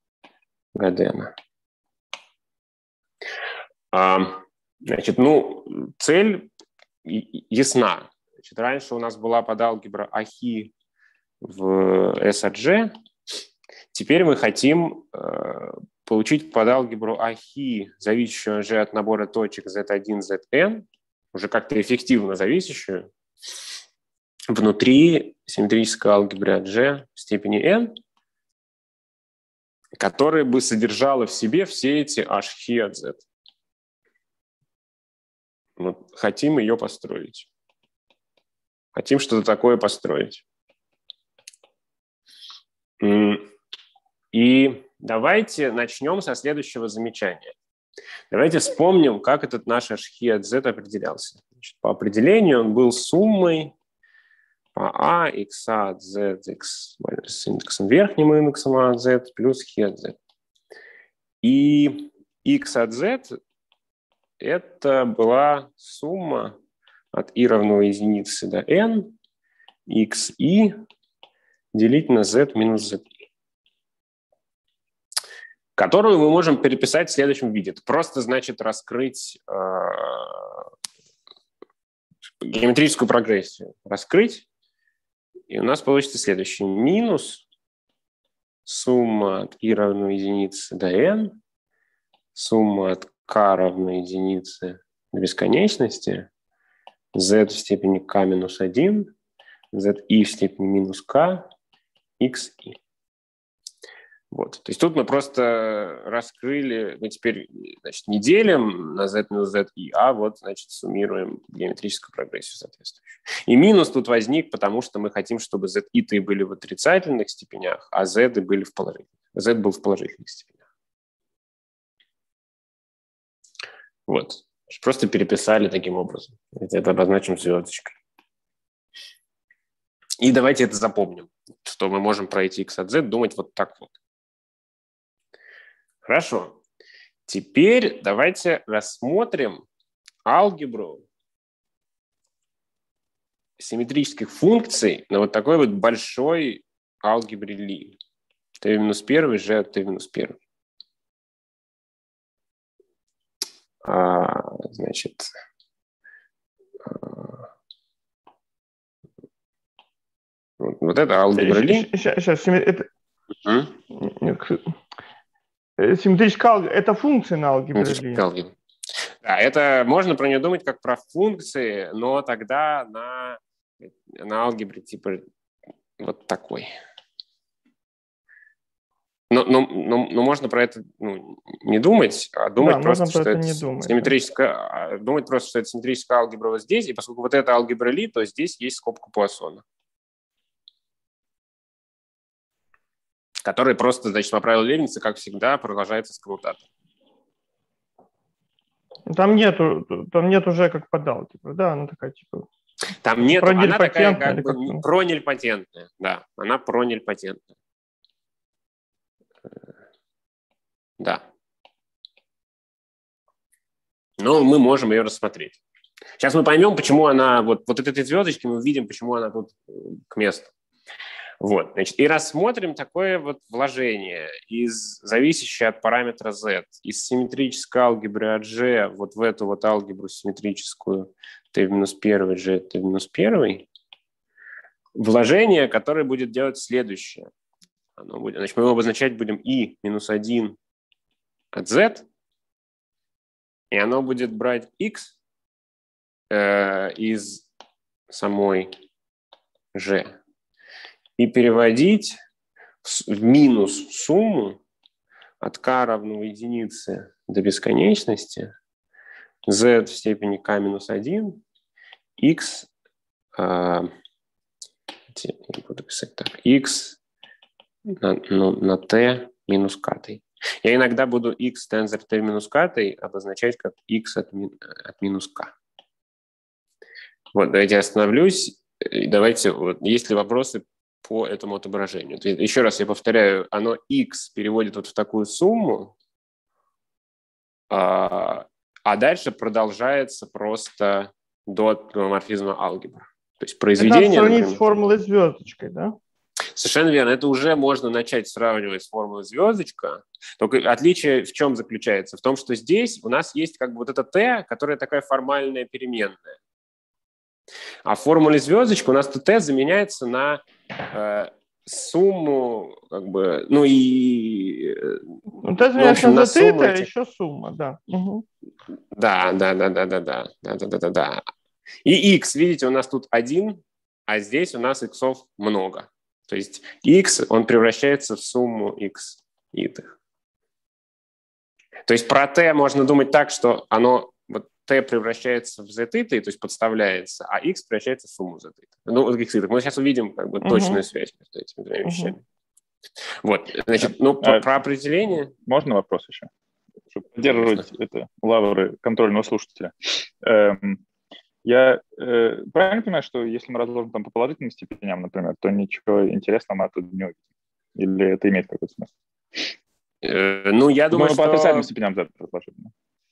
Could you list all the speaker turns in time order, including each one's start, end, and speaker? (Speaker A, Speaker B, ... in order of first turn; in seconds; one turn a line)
Speaker A: 0.8-1.3
Speaker A: 3.9-6.5
Speaker A: 7.0-10.7
Speaker A: 11.4-12.9
Speaker A: 13.9-23.1
Speaker A: 24.5-27.9
Speaker A: 30.0-33.2
Speaker A: 35.8-37.5
Speaker A: 38.9-40.4
Speaker A: 43.0-43.5
Speaker A: 44.3-47.5
Speaker A: 48.3-53.7
Speaker A: 54.7-60.2
Speaker A: 61.4-63.4
Speaker A: 64.4-66.5
Speaker A: 67.1-69.1
Speaker A: 69.9-70.8
Speaker A: 71.7-73.1
Speaker A: 75.8-80.6
Speaker A: 82.4-84.4
Speaker A: 85.5-87.4
Speaker A: 88.7-91.4
Speaker A: 92.3-96.3
Speaker A: 97.1-99.1
Speaker A: 99.7-101.5
Speaker A: 102.2-102.8
Speaker A: 104.3-120.6
Speaker A: 124.1-128.0
Speaker A: 130.2-133.9
Speaker A: 136.0-136.6
Speaker A: 137.3-139.6
Speaker A: 140.2-141.0
Speaker A: 143.6-148.0
Speaker A: 148.6-150.4
Speaker A: 153.8-155.3
Speaker A: 156.8-157.4
Speaker A: 160.6-161.9
Speaker B: 161.4-162.8
Speaker A: 163.4-163.7
Speaker B: 163.9-164.6
Speaker B: 165.8-168.2
Speaker A: 167.7-175.2
Speaker A: 176.0-176.7
Speaker A: 179.3-189.6
Speaker B: 182.6-184.1
Speaker A: 193.4-196.7
Speaker B: 199.1-202.4
Speaker A: 203.0-207.5
Speaker B: 203.4-204.8
Speaker A: 214.2-215.6
Speaker A: 216.2-220.5
Speaker A: 221.4-233.7
Speaker A: 234.9-237.3
Speaker A: 238.0-240.6
Speaker A: 241.5-242.1
Speaker A: 243.7-245.1
Speaker A: 246.3-247.5
Speaker A: 248.1-248.7
Speaker A: 249.7-250.1
Speaker A: 251.2-252.2
Speaker A: 252.8-254.6
Speaker A: 255.4-258.5
Speaker A: 259.5-261.4
Speaker A: 262.2-262.7
Speaker A: 263.4-263.9
Speaker A: 265.1-267.0
Speaker A: 267.9-275.5
Speaker A: 277.3-285.9
Speaker A: 287.7-294.6
Speaker B: 293.8-296.0
Speaker A: 296.5-306.3
Speaker A: 307.8-315.0
Speaker B: 315.4-318.2
Speaker A: 315.8-316.9
Speaker A: 318.9-321.2
Speaker A: 321.8-329.9
Speaker A: 331.9-342.2
Speaker B: 340.4-340.8
Speaker B: 341.8-342.1
Speaker A: 343.2-345.3
Speaker C: 345.4-346.3
Speaker C: 346.9-350.8
Speaker A: 347.2-347.6
Speaker C: 351.4-357.2
Speaker C: 357.7-359.5
Speaker A: 360.0-361.7
Speaker C: 360.9-362.7